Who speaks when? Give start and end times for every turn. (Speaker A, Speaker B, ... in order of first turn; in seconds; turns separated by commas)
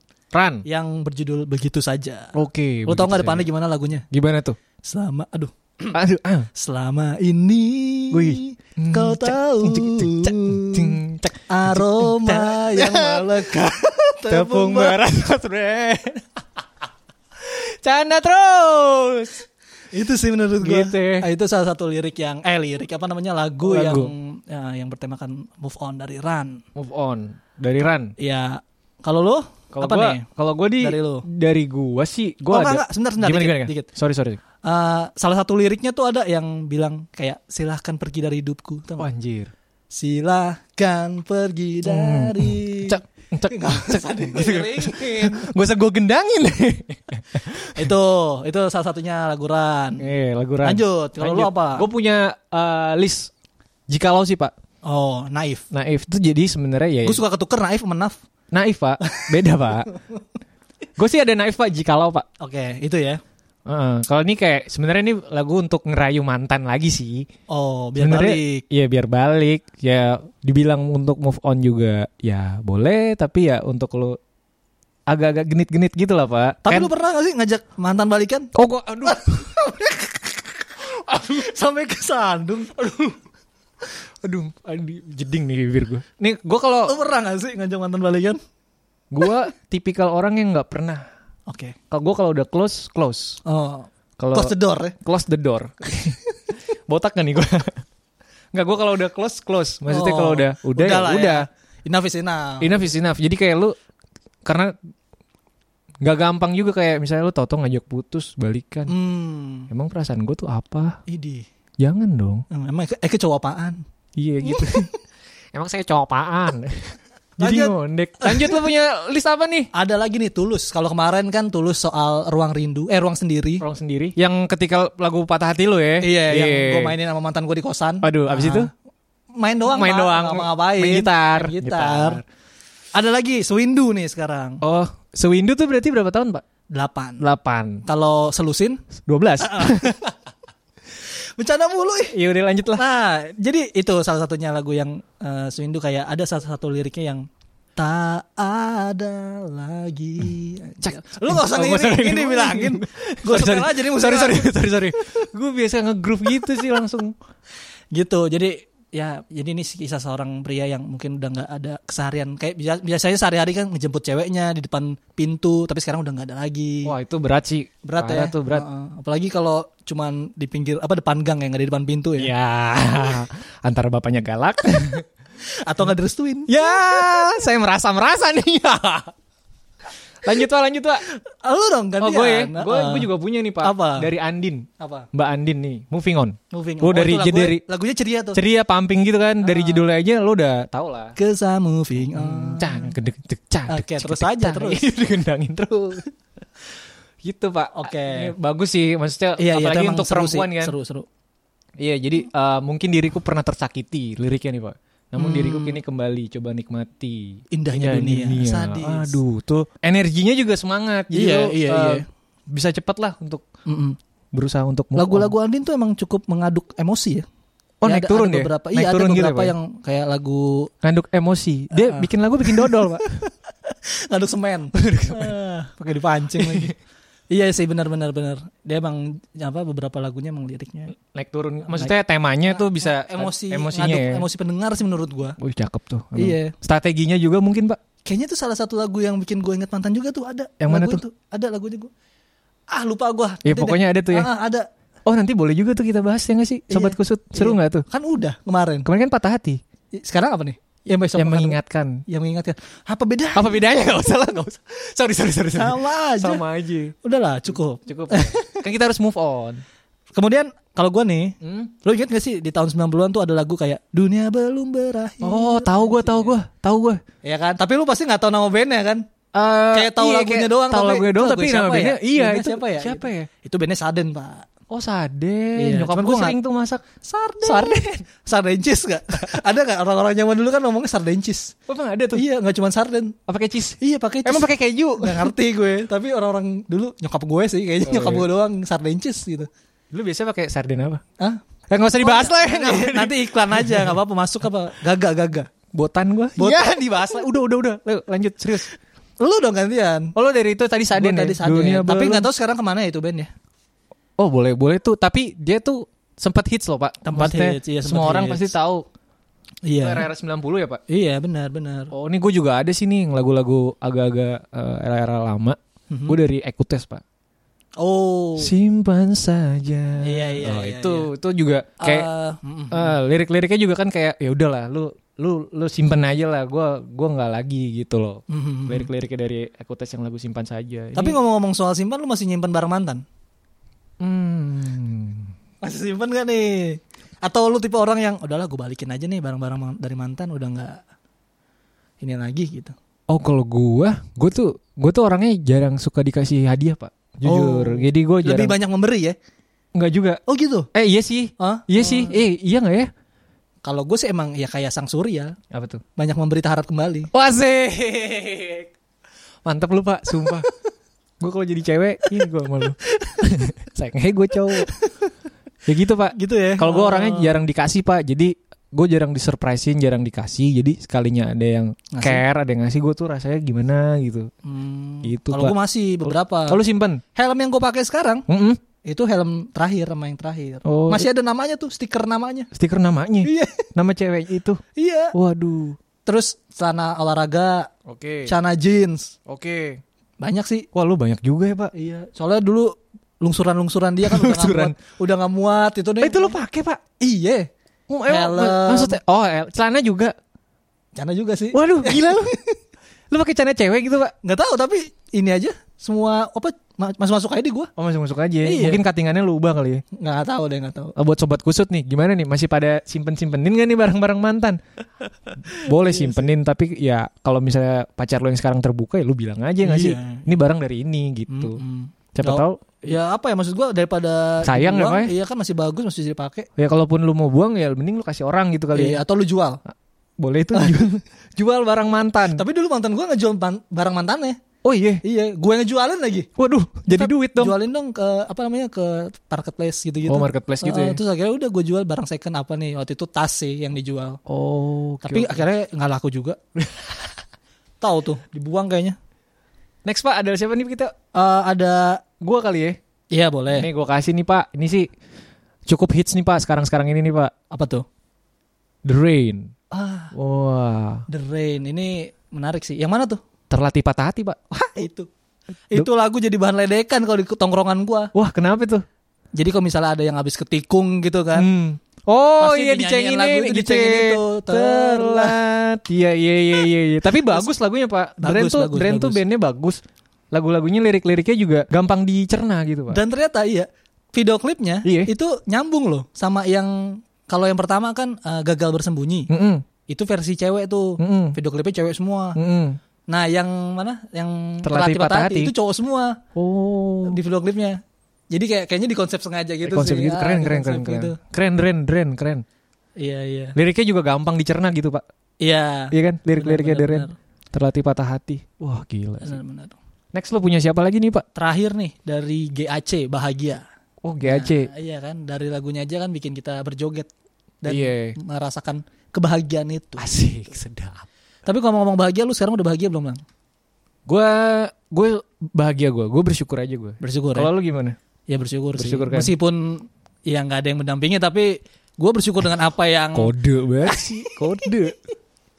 Speaker A: 0.3-0.6, Speaker B: 0.6-2.3, Speaker A: 2.3-3.5, Speaker B: 2.9-4.0, Speaker A: 4.1-4.6, Speaker B: 4.8-6.0, Speaker A: 5.9-6.5, Speaker B: 6.5-11.0, Speaker A: 8.1-13.7, Speaker B: 11.5-15.0, Speaker A: 14.3-16.2, Speaker A: 17.4-19.4, Speaker B: 19.9-26.6, Speaker A: 20.6-21.3, Speaker A: 23.6-24.1, Speaker A: 26.7-28.1, Speaker B: 28.2-30.2, Speaker A: 29.7-34.4, Speaker B: 30.8-31.2, Speaker B: 32.5-33.9, Speaker B: 34.6-39.1, Speaker A: 39.0-39.5, Speaker B: 39.9-43.0, Speaker A: 41.8-47.9, Speaker B: 43.5-45.5, Speaker B: 47.7-50.1, Speaker A: 50.0-53.3, Speaker B: 50.6-51.9, Speaker A: 53.9-54.5, Speaker B: 54.8-55.6, Speaker A: 55.7-57.2, Speaker B: 57.0-58.2, Speaker A: 58.5-59.9, Speaker A: 61.0-62.2, Speaker B: 62.4-63.2, Speaker A: 63.7-67.2, Speaker B: 67.5-68.6, Speaker A: 68.0-74.2, Speaker A: 75.1-76.9, Speaker B: 76.6-78.5, Speaker A: 78.5-79.5, Speaker B: 79.0-83.2, Speaker A: 84.2-87.0, Speaker B: 86.8-88.4, Speaker A: 89.1-91.0, Speaker B: 91.5-91.8, Speaker A: 91.9-93.4, Speaker B: 93.4-94.9, Speaker A: 94.2-97.8, Speaker A: 98.5-101.5, Speaker B: 99.9-102.7, Speaker A: 102.6-103.7, Speaker A: 104.4-104.7, Speaker A: 106.0-108.9, Speaker B: 108.9-109.7, Speaker A: 109.7-111.0, Speaker B: 111.1-111.4, Speaker A: 111.8-112.4, Speaker B: 112.5-113.8, Speaker A: 114.2-114.9, Speaker B: 114.5-114.8, Speaker A: 115.5-119.7, Speaker B: 117.4-118.7, Speaker B: 119.7-123.6, Speaker A: 123.6-126.9, Speaker B: 126.0-128.7, Speaker A: 128.0-128.7, Speaker B: 129.3-132.2, Speaker A: 129.6-132.2, Speaker B: 132.9-134.6, Speaker A: 134.6-136.4, Speaker B: 136.7-137.2, Speaker A: 137.2-137.8, Speaker B: 137.8-138.8, Speaker A: 139.1-139.9, Speaker B: 139.4-140.1, Speaker B: 141.4-142.2, Speaker A: 142.1-142.8, Speaker B: 142.8-147.2, Speaker B: 147.8-155.0, Speaker A: 150.8-157.1, Speaker B: 157.9-166.9, Speaker A: 166.8-168.7, Speaker B: 167.8-172.3, Speaker A: 172.2-175.0, Speaker B: 175.6-177.2, Speaker A: 176.5-179.1, Speaker A: 180.2-181.0, Speaker B: 181.1-183.1, Speaker A: 182.0-187.6, Speaker B: 183.6-184.1, Speaker B: 184.8-185.1, Speaker B: 186.5-188.4, Speaker A: 188.3-191.1, Speaker B: 189.4-189.9, Speaker B: 191.2-192.9, Speaker A: 192.1-196.1, Speaker B: 193.7-194.8, Speaker A: 197.2-200.7, Speaker B: 197.7-198.3, Speaker B: 199.4-201.1, Speaker A: 201.8-213.4, Speaker B: 205.2-205.8, Speaker B: 207.5-209.2, Speaker B: 211.1-212.0, Speaker B: 213.7-214.0, Speaker A: 214.3-215.3, Speaker B: 214.9-217.2, Speaker A: 217.8-219.5, Speaker B: 217.8-220.7, Speaker A: 220.8-223.0, Speaker B: 221.7-226.7, Speaker A: 224.7-225.3, Speaker A: 226.3-226.7, Speaker B: 227.3-230.9, Speaker A: 231.1-234.2, Speaker B: 231.7-231.9, Speaker B: 232.5-235.4, Speaker A: 235.4-237.8, Speaker B: 236.2-236.5, Speaker B: 238.0-241.9, Speaker A: 240.6-241.0, Speaker B: 242.7-244.7, Speaker A: 243.4-244.3, Speaker A: 245.1-247.8, Speaker B: 246.7-248.9, Speaker A: 248.8-249.6, Speaker B: 249.9-253.6, Speaker A: 251.2-252.0, Speaker A: 253.3-256.9, Speaker B: 255.5-256.4, Speaker B: 257.0-258.6, Speaker A: 257.9-259.6, Speaker B: 260.1-266.4, Speaker A: 261.4-261.7, Speaker A: 265.2-267.0, Speaker B: 267.2-269.0, Speaker A: 269.3-273.3, Speaker B: 269.7-274.5, Speaker A: 274.7-276.8, Speaker B: 275.5-276.4, Speaker B: 277.0-281.5, Speaker A: 277.4-278.0, Speaker A: 281.7-282.2, Speaker B: 282.1-283.1, Speaker A: 283.3-285.3, Speaker B: 283.8-289.5, Speaker A: 287.8-288.3, Speaker A: 289.9-291.0, Speaker A: 291.7-293.9, Speaker B: 292.0-295.5, Speaker A: 295.7-298.7, Speaker B: 296.4-297.2, Speaker B: 299.2-300.1, Speaker A: 300.1-302.3, Speaker B: 300.9-303.3, Speaker A: 304.2-308.8, Speaker B: 307.0-308.5, Speaker B: 309.7-310.1, Speaker A: 309.8-310.8, Speaker B: 310.9-311.9, Speaker A: 311.9-315.6, Speaker B: 315.9-316.2, Speaker A: 316.1-317.0, Speaker B: 317.8-318.5, Speaker A: 318.4-322.1, Speaker B: 320.0-321.1, Speaker B: 321.8-323.0, Speaker A: 322.7-331.2, Speaker B: 328.3-328.9, Speaker B: 330.9-333.0, Speaker A: 334.0-335.3, Speaker B: 335.6-340.8, Speaker B: 342.0-342.7, Speaker A: 343.1-348.6, Speaker B: 347.2-349.1, Speaker A: 349.7-350.2, Speaker B: 350.3-350.7, Speaker A: 350.7-352.9, Speaker B: 351.4-352.2, Speaker B: 353.6-355.4, Speaker A: 355.5-355.8, Speaker B: 355.9-357.1, Speaker A: 357.1-358.7, Speaker A: 359.4-360.5, Speaker A: 361.2-364.7, Speaker B: 364.6-364.9, Speaker A: 365.6-374.3, Speaker B: 366.1-367.4, Speaker B: 371.9-372.2, Speaker B: 374.4-376.6, Speaker A: 375.0-375.5, Speaker A: 376.1-377.0, Speaker B: 377.1-378.2, Speaker A: 378.3-378.6, Speaker B: 378.8-382.5, Speaker A: 380.6-381.1, Speaker A: 382.5-384.6, Speaker B: 383.2-383.6, Speaker B: 384.8-385.1, Speaker A: 385.1-385.8, Speaker B: 386.1-387.7, Speaker A: 387.9-388.3, Speaker B: 388.2-389.1, Speaker A: 389.3-389.8, Speaker B: 390.2-390.7, Speaker A: 390.7-391.7, Speaker B: 391.7-396.4, Speaker A: 394.0-394.8, Speaker A: 396.0-396.8, Speaker B: 397.0-397.5, Speaker A: 397.9-400.1, Speaker B: 398.1-399.0, Speaker B: 400.9-402.6, Speaker A: 401.5-402.3, Speaker A: 403.1-404.1, Speaker B: 404.2-407.7, Speaker A: 407.8-409.8, Speaker B: 408.4-408.8, Speaker B: 409.9-410.9, Speaker A: 410.9-414.6, Speaker A: 415.5-421.6, Speaker B: 415.6-416.3, Speaker B: 419.6-420.2, Speaker B: 421.3-426.5, Speaker A: 422.1-422.6, Speaker A: 424.4-425.1, Speaker A: 426.6-429.0, Speaker B: 428.7-429.6, Speaker A: 430.2-432.4, Speaker B: 430.5-430.9, Speaker B: 432.3-434.4, Speaker A: 434.6-435.0, Speaker B: 435.0-436.3, Speaker A: 436.4-437.5, Speaker B: 436.9-444.2, Speaker A: 440.1-441.0, Speaker A: 444.2-445.4, Speaker B: 445.0-446.4, Speaker A: 446.6-447.0, Speaker B: 447.8-449.0, Speaker A: 449.8-450.9, Speaker B: 451.1-452.0, Speaker A: 452.2-452.8, Speaker B: 453.1-453.7, Speaker A: 453.5-454.9, Speaker A: 455.7-457.3, Speaker B: 457.5-457.8, Speaker A: 458.8-459.5, Speaker B: 459.7-460.1, Speaker A: 460.1-461.0, Speaker B: 461.1-463.2, Speaker A: 463.5-464.4, Speaker B: 464.5-465.1, Speaker B: 465.7-468.1, Speaker A: 468.1-468.8, Speaker B: 469.4-471.5, Speaker A: 471.3-479.8, Speaker B: 472.4-475.4, Speaker B: 477.2-477.5, Speaker B: 478.2-479.2, Speaker A: 480.3-483.0, Speaker B: 482.9-489.3, Speaker A: 484.8-485.1, Speaker A: 489.3-489.6, Speaker B: 489.9-492.4, Speaker A: 491.0-491.4, Speaker A: 492.4-492.8, Speaker B: 493.1-496.2, Speaker A: 494.6-495.5, Speaker A: 496.4-497.2, Speaker B: 497.1-497.8, Speaker B: 498.3-501.2, Speaker A: 499.6-502.4, Speaker B: 503.0-503.6, Speaker A: 503.6-505.0, Speaker B: 505.4-507.1, Speaker A: 505.9-509.4, Speaker B: 509.2-509.8, Speaker A: 510.1-511.2, Speaker B: 511.3-513.6, Speaker A: 514.0-514.7, Speaker B: 514.2-517.1, Speaker B: 517.6-520.0, Speaker A: 517.7-518.1, Speaker A: 520.0-521.0, Speaker B: 521.5-523.2, Speaker A: 524.0-528.0, Speaker B: 527.0-527.5, Speaker B: 528.3-533.3, Speaker A: 528.8-529.3, Speaker A: 533.1-535.0, Speaker B: 533.9-534.9